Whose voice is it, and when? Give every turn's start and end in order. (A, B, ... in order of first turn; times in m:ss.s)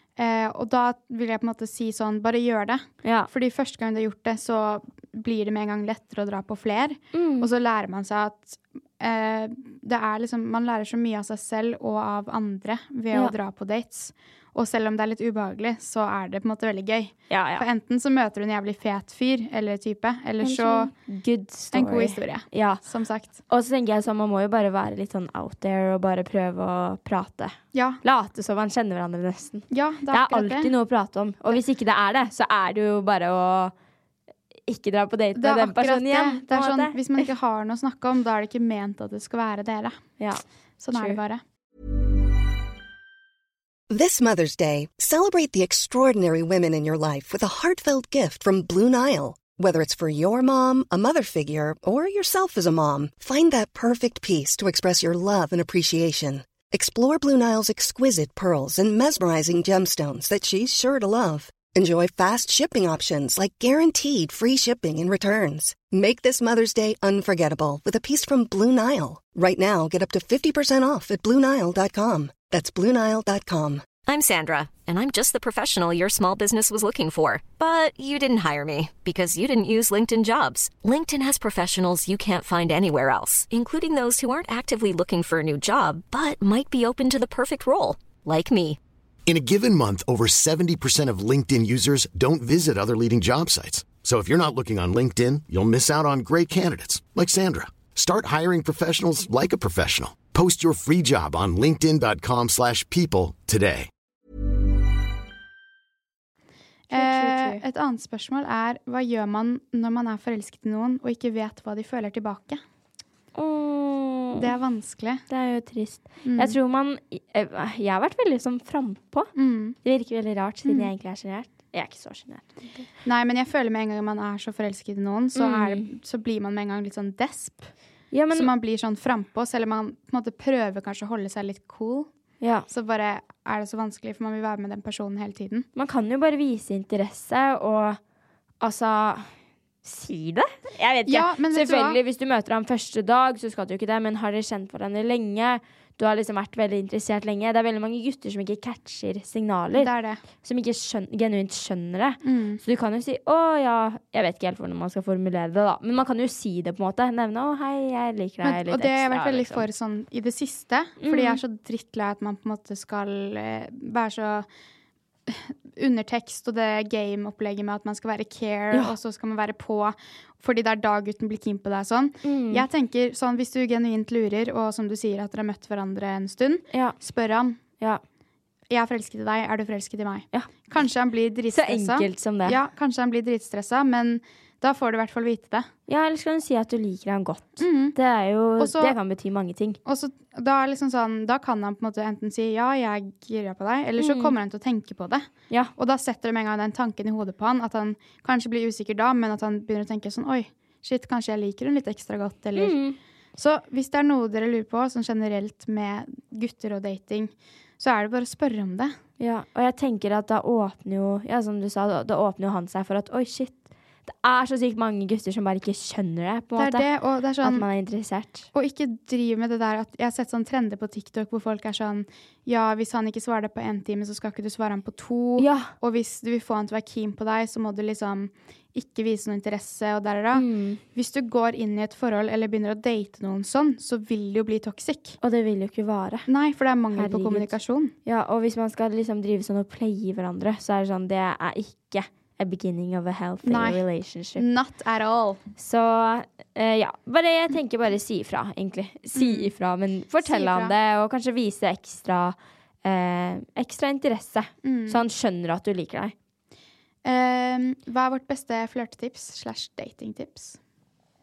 0:00.2-0:20.9 A
0:03.0-0:03.3 B
0:07.1-0:07.5 B
0:17.3-0:17.6 B
0:20.4-0:22.8 B
0:21.7-0:23.4 A
0:23.5-0:33.7 B
0:27.7-0:28.0 A
0:29.7-0:30.7 A
0:34.7-0:37.2 B
0:35.3-0:40.0 A
0:40.2-0:41.2 B
0:40.8-0:41.4 A
0:43.9-1:13.9 C
1:14.0-1:28.8 D
1:29.2-1:43.9 E
1:46.9-1:52.6 A
1:46.9-1:47.6 B
1:53.3-1:54.5 B
1:54.3-1:55.2 A
1:55.3-1:59.3 B
1:56.2-1:56.6 A
1:59.4-1:59.8 A
1:59.8-2:02.8 B
2:00.6-2:00.9 A
2:03.0-2:07.7 A
2:05.4-2:05.9 B
2:08.1-2:08.5 B
2:08.3-2:12.1 A
2:12.4-2:12.7 B
2:12.7-2:15.7 A
2:15.8-2:18.0 B
2:18.6-2:19.3 B
2:19.8-2:29.9 B
2:21.0-2:22.0 A
2:29.7-2:30.2 A
2:30.4-2:39.6 B
2:32.2-2:32.6 A
2:38.4-2:44.5 A
2:41.0-2:41.4 B
2:45.3-2:57.6 A
2:52.2-2:52.6 B
2:56.7-2:57.0 B
2:58.7-3:05.7 A
3:01.5-3:02.6 B
3:05.9-3:09.8 B
3:07.6-3:08.0 A
3:08.6-3:09.0 A
3:09.8-3:15.2 A
3:14.0-3:14.4 B
3:15.8-3:22.8 A
3:22.5-3:23.0 B
3:23.4-3:28.9 A
3:29.2-3:36.9 B
3:36.6-3:37.6 A
3:37.4-3:38.5 B
3:38.5-3:55.2 A
3:45.4-3:45.7 B
3:50.3-3:50.8 B
3:55.2-3:56.3 B
3:56.3-3:57.9 A
3:56.9-3:57.5 B
3:58.0-4:04.4 B
4:03.4-4:03.8 A
4:04.4-4:05.4 A
4:05.6-4:16.1 B
4:09.1-4:09.5 A
4:10.2-4:10.7 A
4:14.6-4:15.0 A
4:17.0-4:20.6 A